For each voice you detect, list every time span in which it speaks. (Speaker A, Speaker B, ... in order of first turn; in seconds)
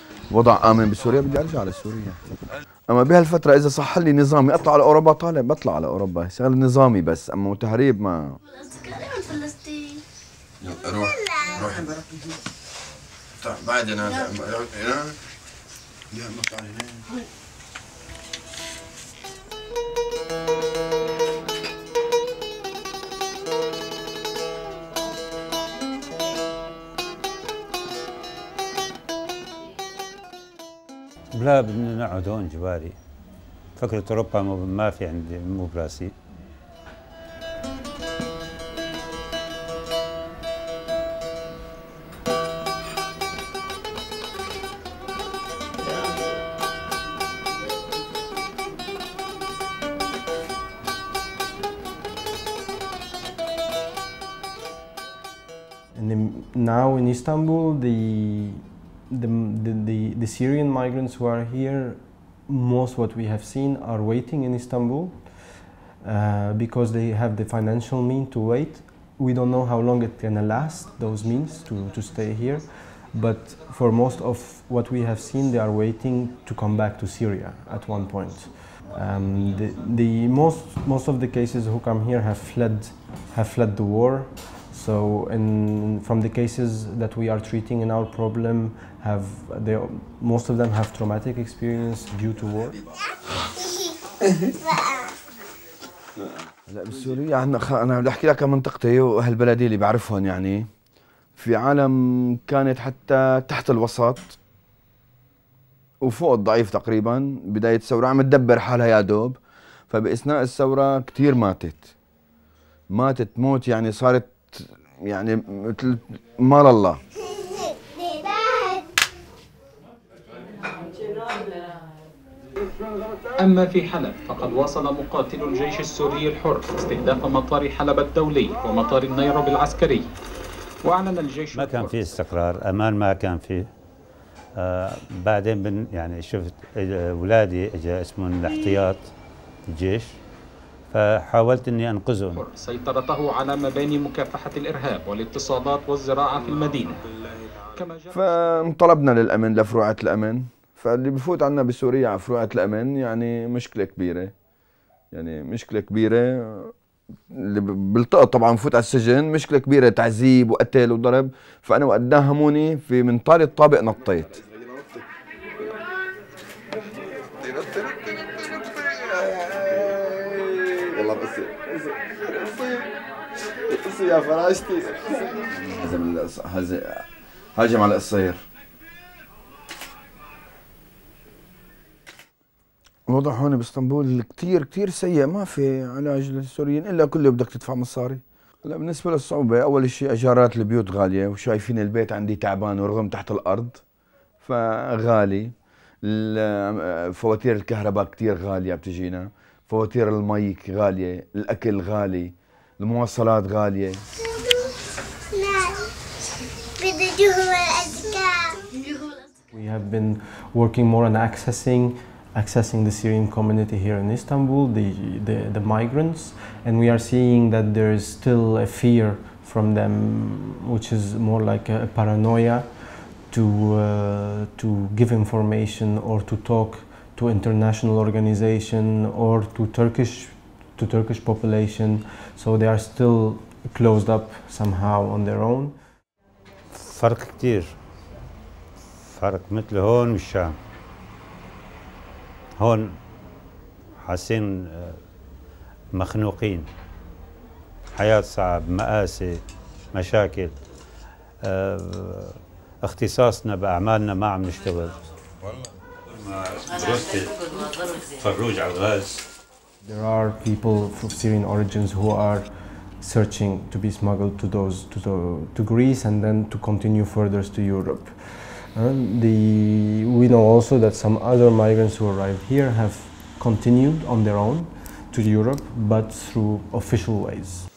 Speaker A: 0.3-2.2, 2.9-8.4, 10.6-12.0, 13.4-15.2, 16.1-17.1, 96.7-100.7, 101.4-104.4, 106.0-109.4, 109.9-111.9, 112.9-117.0, 148.1-154.3, 155.1-156.7, 157.3-165.0, 167.2-172.9, 173.5-178.4, 183.1-193.8, 194.4-204.0
Speaker B: 8.6-10.0, 11.2-11.5, 117.9-118.8, 205.3-205.9, 206.8-209.1
Speaker C: 31.3-33.0, 33.8-36.1, 131.5-133.6, 134.6-139.1, 139.7-140.1, 140.9-142.4, 236.7-237.7, 239.0-240.5, 242.6-243.0, 244.0-245.0, 245.9-246.7, 247.9-250.5, 251.4-255.0, 256.1-259.2
Speaker D: 55.9-92.8, 209.5-235.8, 259.8-277.7
Speaker E: 123.4-130.0, 130.8-131.9, 142.3-147.0, 147.6-148.3